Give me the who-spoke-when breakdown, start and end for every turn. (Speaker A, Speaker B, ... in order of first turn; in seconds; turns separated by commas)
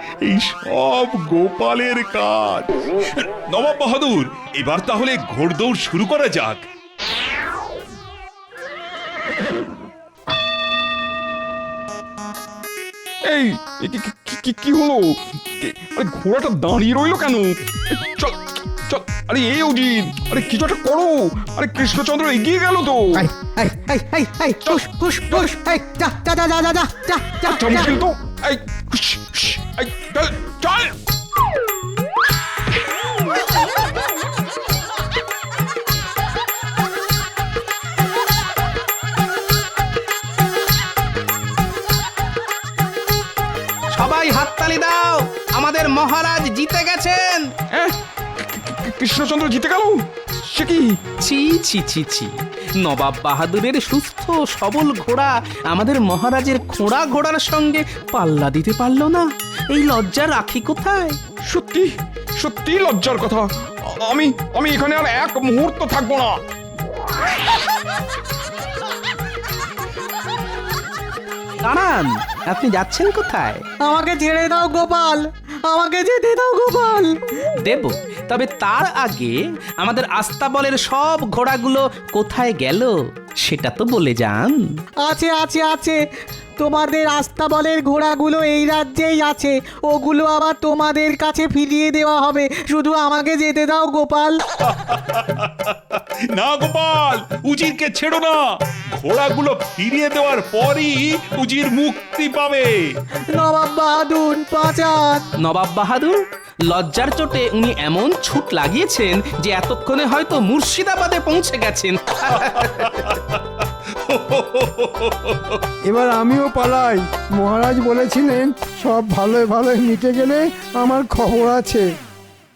Speaker A: 0.2-6.7, Speaker B: 13.3-23.2, Speaker C: 23.1-27.9, Speaker B: 24.6-25.4, Speaker B: 27.4-30.9, Speaker D: 43.9-47.5, Speaker B: 47.7-51.0, Speaker D: 51.2-61.2, Speaker B: 61.5-66.4, Speaker D: 71.6-73.6, Speaker C: 73.8-77.2, Speaker D: 77.6-84.6, Speaker C: 85.1-86.0, Speaker C: 86.6-94.4, Speaker A: 94.6-102.8, Speaker C: 103.4-105.2, Speaker D: 105.4-112.9, Speaker A: 112.3-115.6, Speaker E: 115.9-121.8